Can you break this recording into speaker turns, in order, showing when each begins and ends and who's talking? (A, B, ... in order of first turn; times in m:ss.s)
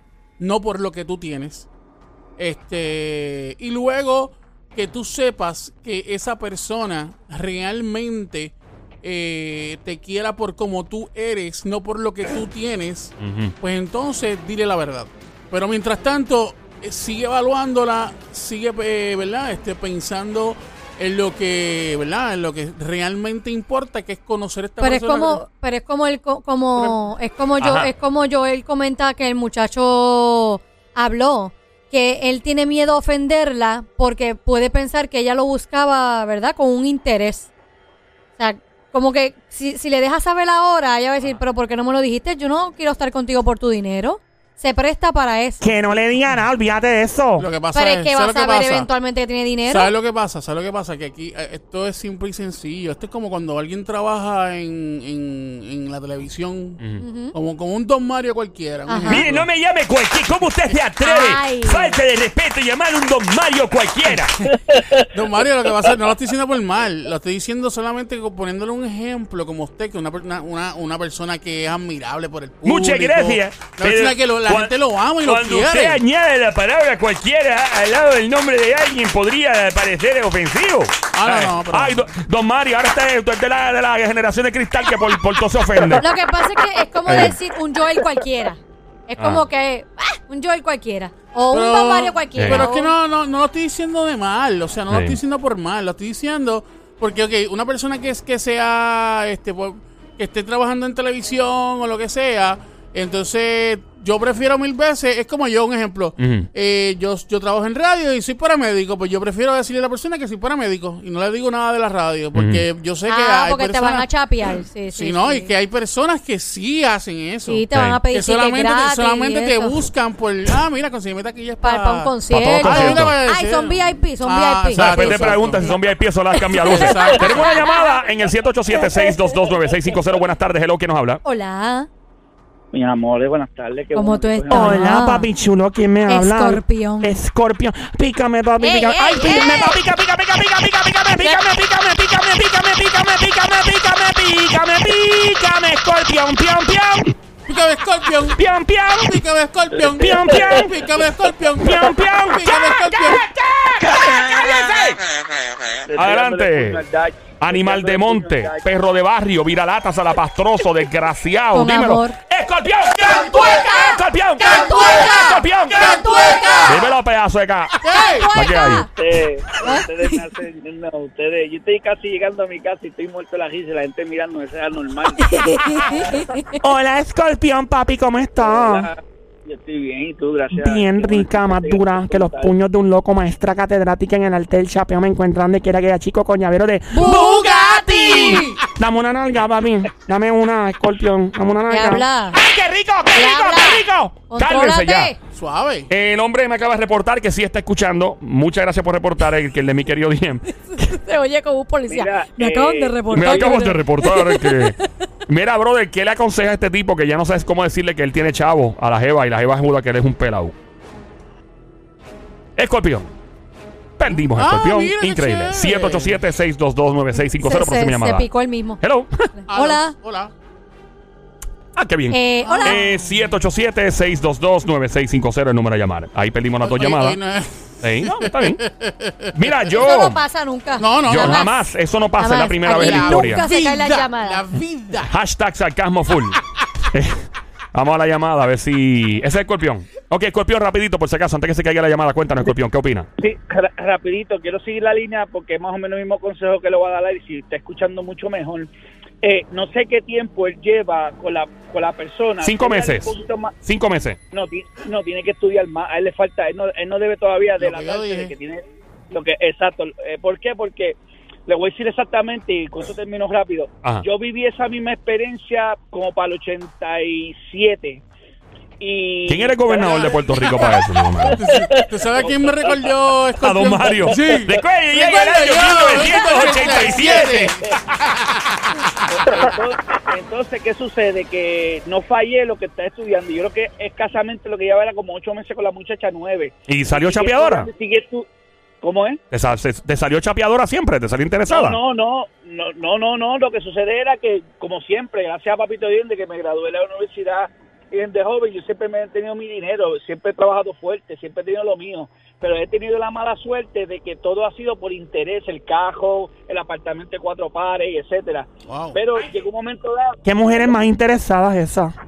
0:00.4-0:01.7 A
0:02.4-0:25.4 A
0:13.2-0:13.6 B
0:24.8-0:37.5 C
0:27.6-0:27.9 B
0:38.4-0:45.7 C
0:45.6-0:47.5 D
0:47.4-0:48.9 A
0:47.7-0:49.9 C
0:49.7-0:56.8 A
0:57.0-0:57.3 C
0:57.3-0:59.5 A
0:58.9-0:59.2 C
0:59.0-1:04.4 B
1:01.0-1:02.0 C
1:04.7-1:05.0 E
1:05.1-1:16.0 A
1:12.6-1:26.1 B
1:21.1-1:22.1 A
1:25.9-1:33.0 C
1:27.1-1:27.4 B
1:29.2-1:29.4 B
1:31.5-1:54.1 A
1:32.4-1:32.7 B
1:34.9-1:35.2 B
1:46.2-1:46.5 B
1:52.3-1:52.7 B
1:53.1-1:55.5 C
1:54.9-2:05.7 A
1:57.5-1:59.8 C
1:57.7-1:58.0 B
2:01.6-2:05.7 C
2:02.3-2:03.2 B
2:04.7-2:11.2 B
2:06.5-2:08.1 C
2:06.6-2:07.5 A
2:11.2-2:11.9 C
2:12.7-2:14.8 E
2:13.9-2:15.3 C
2:14.5-2:27.2 D
2:16.1-2:17.2 C
2:18.6-2:19.8 C
2:27.5-2:28.4 A
2:28.4-2:29.2 D
2:29.0-2:33.2 A
2:29.9-2:30.7 D
2:31.6-2:33.2 D
2:33.0-2:35.0 B
2:35.9-2:38.6 E
2:36.0-2:36.8 B
2:37.4-2:45.9 B
2:41.5-2:42.2 C
2:44.4-2:46.8 C
2:44.4-2:46.8 A
2:46.6-2:47.8 B
2:47.8-2:48.3 A
2:47.8-2:48.9 C
2:48.4-2:48.9 B
2:48.9-2:55.6 E
2:49.6-2:50.2 C
2:55.2-2:56.6 C
2:56.6-2:58.9 D
2:58.4-3:02.5 E
3:00.5-3:14.2 D
3:06.9-3:08.6 C
3:07.0-3:08.6 A
3:11.7-3:12.4 C
3:13.2-3:15.2 C
3:14.4-3:15.1 B
3:15.3-3:15.9 A
3:15.9-3:20.5 B
3:20.7-3:24.9 C
3:21.9-3:23.6 E
3:23.1-3:30.5 B
3:32.6-3:33.1 B
3:34.0-3:38.3 B
3:34.2-3:36.2 A
3:37.2-3:38.8 C
3:38.8-3:39.3 B
3:39.3-3:40.0 C
3:39.5-3:40.3 A
3:41.8-3:47.2 B
3:42.1-3:42.8 C
3:42.4-3:42.8 A
3:46.6-3:49.5 A
3:47.8-3:48.6 B
3:49.3-3:50.2 B
3:49.7-3:51.6 C
3:50.8-3:51.5 A
3:51.1-3:53.4 B
3:52.2-3:54.5 C
3:52.8-3:55.1 A
3:55.1-3:56.4 B
3:56.9-4:03.1 B
4:03.2-4:08.7 E
4:09.2-4:13.5 E
4:12.4-4:14.2 B
4:14.3-4:28.0 E
4:17.6-4:18.3 A
4:28.8-4:33.0 E
4:29.3-4:31.4 B
4:31.4-4:39.6 A
4:33.4-4:37.5 B
4:36.0-4:37.7 E
4:39.1-4:48.3 E
4:46.7-4:47.7 B
4:48.8-4:49.2 E
4:49.3-4:51.8 B
4:51.5-5:10.7 E
5:08.7-5:09.0 A
5:10.2-5:11.9 D